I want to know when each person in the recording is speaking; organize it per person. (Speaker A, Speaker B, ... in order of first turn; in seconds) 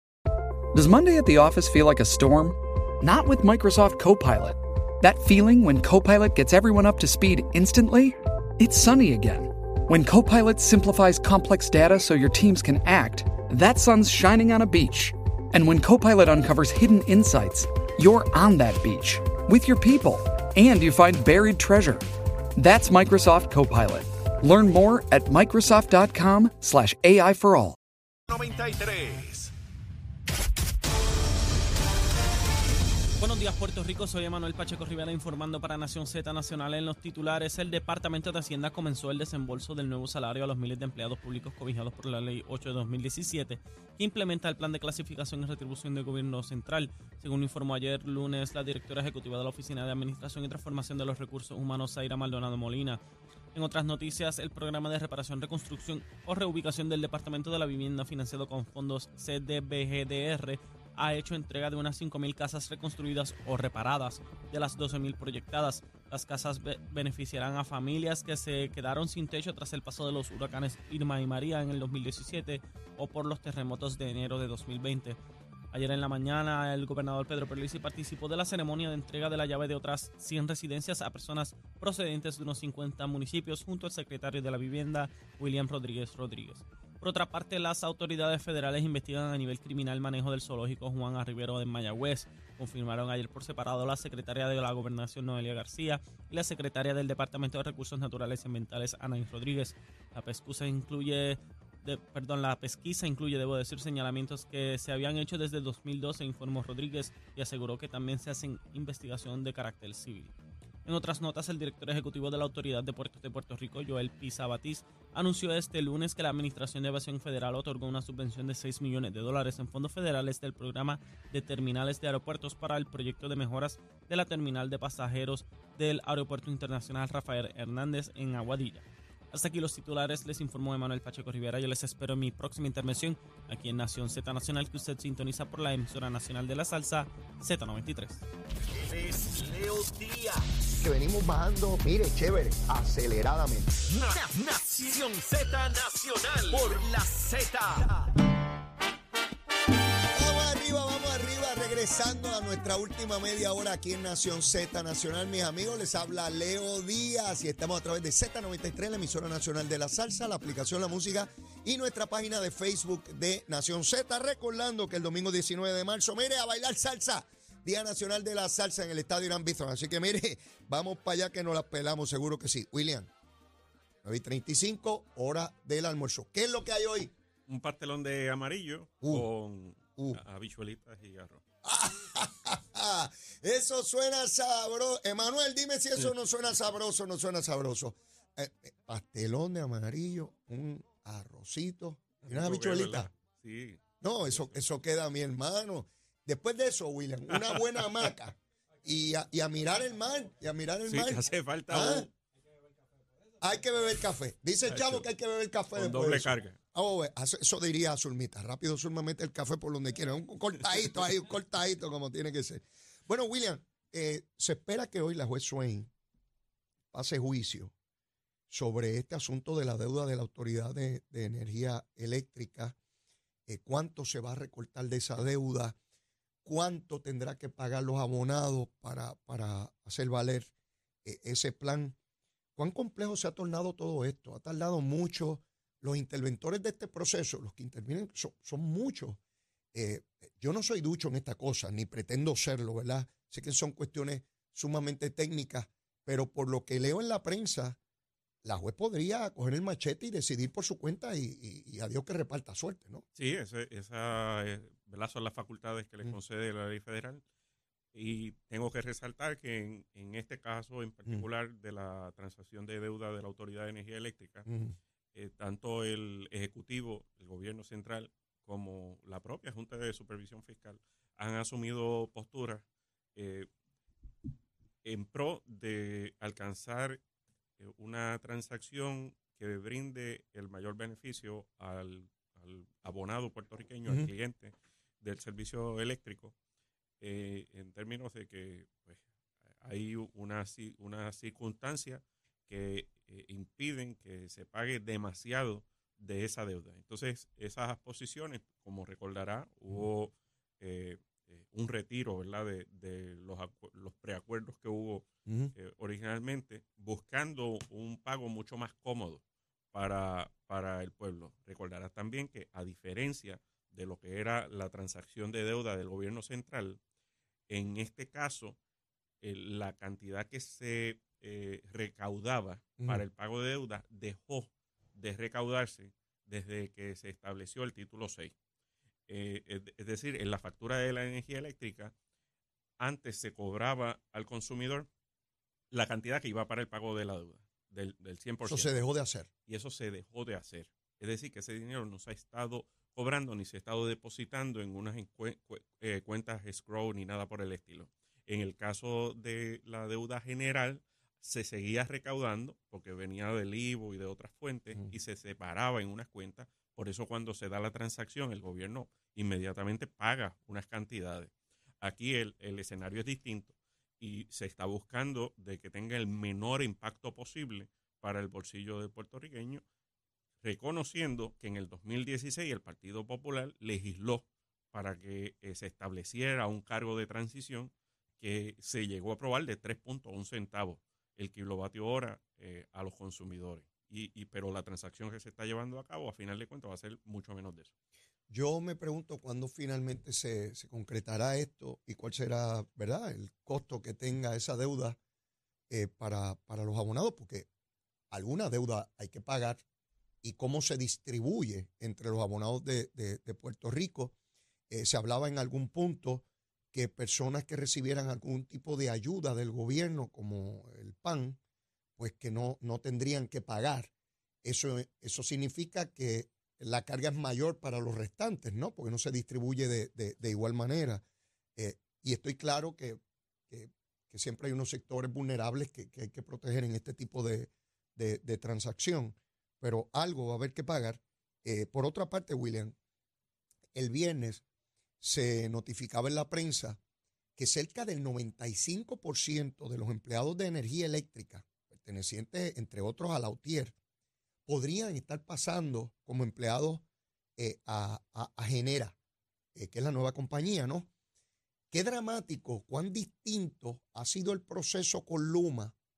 Speaker A: 0.7-27.8
Speaker B: 28.3-29.5, 138.7-140.6, 143.9-148.1
Speaker C: 33.2-53.0, 53.5-75.2, 75.7-110.3, 110.8-138.2
Speaker D: 140.8-143.8, 150.1-173.1, 174.0-177.1, 181.6-193.1, 194.0-202.1, 203.4-215.9, 216.9-217.7, 218.5-222.8, 223.5-225.8, 226.4-230.5, 231.0-231.9, 232.6-239.2, 239.7-247.8, 248.4-253.0, 264.5-264.7, 305.3-305.5, 338.4-339.3, 388.3-395.0, 395.7-397.5, 398.1-399.6, 400.2-404.1, 404.7-411.4, 412.0-413.9, 414.4-421.0, 421.6-432.7, 433.7-434.4, 435.0-436.8, 437.4-443.7, 444.5-446.8, 447.4-448.9, 449.5-450.9, 451.7-455.7
Speaker E: 177.5-181.4, 192.2-194.6, 197.3-198.1, 200.9-202.1, 204.7-205.0, 205.7-206.6, 253.2-257.2, 257.9-264.5, 265.1-272.6, 273.1-273.5, 274.8-277.0, 277.6-286.3, 287.0-289.0, 289.6-316.8, 317.5-318.6, 319.2-328.3, 329.1-331.9, 332.8-334.9, 335.7-338.7, 339.5-369.6, 370.4-387.7